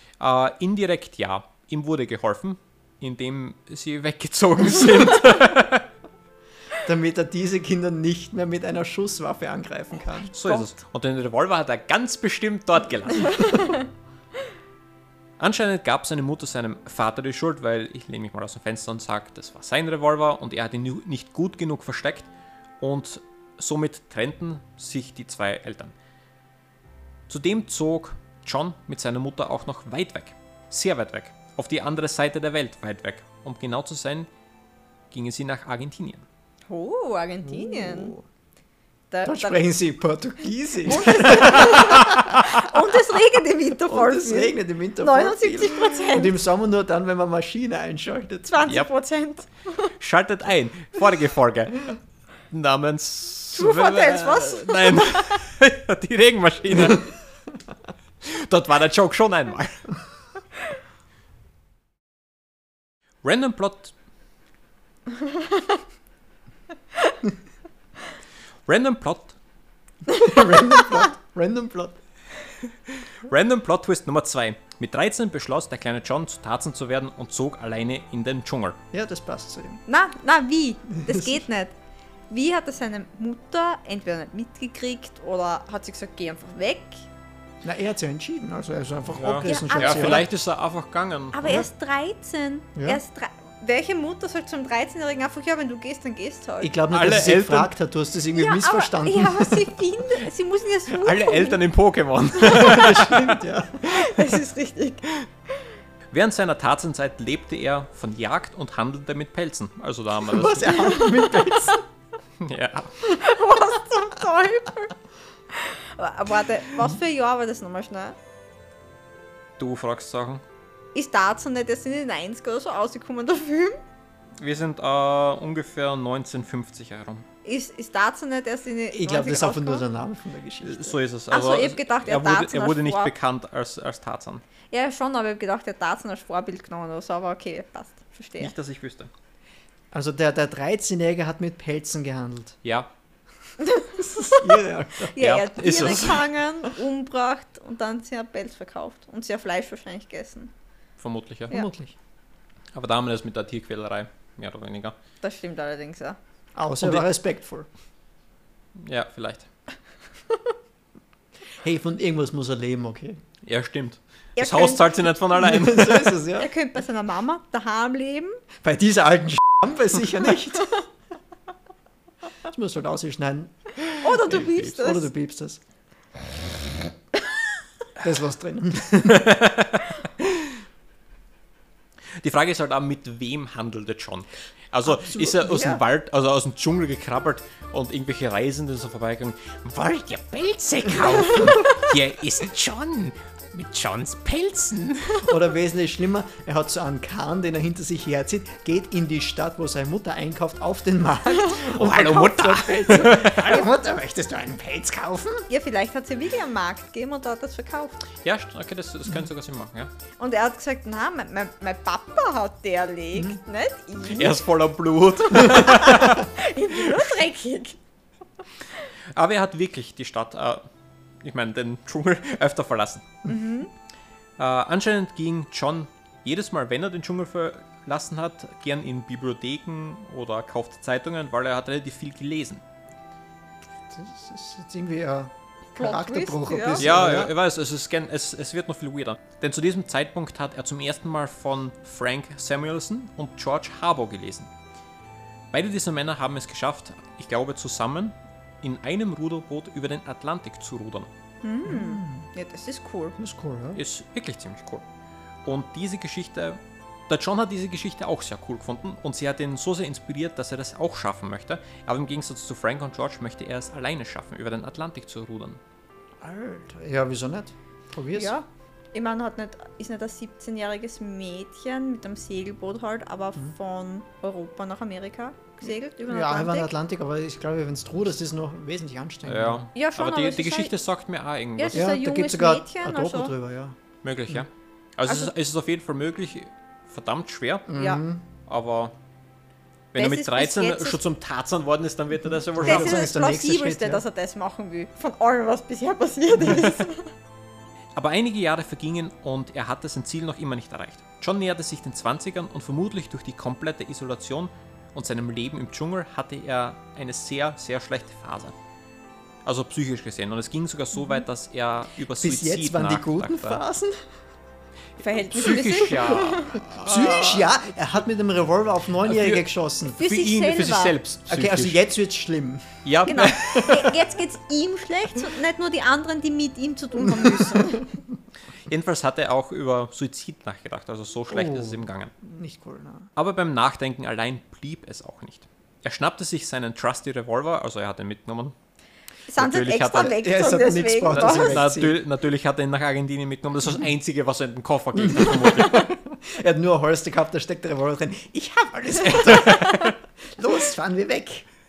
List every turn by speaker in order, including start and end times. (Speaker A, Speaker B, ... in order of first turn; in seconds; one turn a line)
Speaker A: 0.2-5.9
Speaker B: 6.8-10.3
Speaker A: 10.3-13.7
Speaker A: 15.4-22.3
Speaker A: 22.8-25.9
Speaker A: 27.3-34.3
Speaker A: 35.1-36.2
Speaker C: 36.7-38.1
Speaker B: 37.4-38.2
Speaker C: 39.1-39.6
Speaker B: 39.2-42.8
Speaker C: 40.9-46.4
Speaker B: 43.9-48.5
Speaker C: 48.5-49.9
Speaker A: 50.0-52.0
Speaker A: 52.5-57.1
Speaker C: 53.5-55.4
Speaker A: 58.2-59.9
Speaker A: 63.2-63.9
Speaker A: 68.7-69.4
Speaker B: 70.2-72.0
Speaker A: 72.9-78.8
Speaker B: 78.9-79.8
Speaker C: 79.9-81.7
Speaker B: 80.9-81.4
Speaker C: 82.3-87.0
Speaker B: 87.6-90.3
Speaker A: 89.2-91.7
Speaker C: 89.4-90.3
Speaker C: 91.3-96.8
Speaker B: 92.8-93.0
Speaker B: 96.6-99.8
Speaker A: 96.9-97.7
Speaker C: 98.3-101.6
Speaker A: 100.9-103.4
Speaker B: 102.4-104.0
Speaker C: 103.8-105.1
Speaker A: 106.1-111.1
Speaker B: 110.2-111.8
Speaker C: 110.8-111.4
Speaker A: 112.4-113.0
Speaker C: 113.0-114.9
Speaker C: 115.5-118.2
Speaker A: 119.6-120.4
Speaker C: 121.0-123.8
Speaker A: 124.4-127.2
Speaker C: 127.4-129.8
Speaker B: 128.9-131.0
Speaker A: 130.6-134.4
Speaker C: 131.3-133.1
Speaker C: 134.7-138.5
Speaker A: 138.4-139.1
Speaker B: 139.9-142.6
Speaker A: 142.6-142.9
Speaker C: 143.6-150.5
Speaker B: 144.0-145.2
Speaker A: 145.2-146.3
Speaker A: 151.0-151.6
Speaker B: 151.5-151.9
Speaker A: 152.7-154.9
Speaker C: 155.2-156.2
Speaker B: 156.6-157.7
Speaker A: 156.8-157.1
Speaker A: 158.8-159.5
Speaker B: 161.6-163.2
Speaker A: 163.4-166.2
Speaker C: 164.4-165.1
Speaker B: 165.4-166.5
Speaker C: 166.4-168.4
Speaker B: 168.6-170.8
Speaker B: 172.4-173.5
Speaker C: 174.0-175.1
Speaker B: 174.3-175.6
Speaker B: 178.0-179.4
Speaker A: 179.1-180.5
Speaker A: 182.2-195.2
Speaker B: 184.9-185.8
Speaker B: 195.2-205.5
Speaker A: 201.6-203.7
Speaker C: 205.5-208.0
Speaker A: 208.2-209.9
Speaker C: 210.2-214.4
Speaker A: 214.1-216.3
Speaker C: 215.3-217.8
Speaker A: 219.1-220.7
Speaker A: 221.2-223.1
Speaker C: 223.3-223.7
Speaker A: 224.4-232.6
Speaker B: 233.9-237.3
Speaker C: 235.8-236.9
Speaker A: 236.8-244.5
Speaker A: 245.5-251.1
Speaker C: 251.4-253.2
Speaker B: 251.7-252.3
Speaker B: 253.2-253.8
Speaker A: 253.8-254.8
Speaker A: 255.5-265.6
Speaker B: 266.2-268.4
Speaker C: 268.1-276.7
Speaker B: 276.1-279.7
Speaker A: 279.3-281.9
Speaker C: 279.8-280.7
Speaker C: 281.6-283.3
Speaker B: 281.7-283.8
Speaker A: 284.0-287.7
Speaker B: 287.7-288.2
Speaker C: 287.8-288.0
Speaker A: 288.5-288.9
Speaker A: 289.9-293.1
Speaker C: 290.0-291.0
Speaker B: 292.3-294.0
Speaker C: 292.6-297.1
Speaker A: 296.4-296.7
Speaker A: 298.0-308.6
Speaker A: 309.4-313.6
Speaker B: 312.2-314.1
Speaker C: 315.0-316.7
Speaker A: 315.3-317.5
Speaker B: 316.8-320.0
Speaker A: 319.1-319.4
Speaker C: 319.9-321.0
Speaker A: 320.0-321.8
Speaker B: 321.3-322.8
Speaker A: 322.8-323.9
Speaker C: 323.1-327.9
Speaker B: 327.1-327.8
Speaker A: 328.7-332.1
Speaker B: 331.3-333.1
Speaker A: 333.2-338.6
Speaker C: 339.3-341.6
Speaker A: 339.4-340.2
Speaker B: 340.0-342.0
Speaker A: 341.1-345.9
Speaker B: 344.9-351.5
Speaker A: 349.5-349.9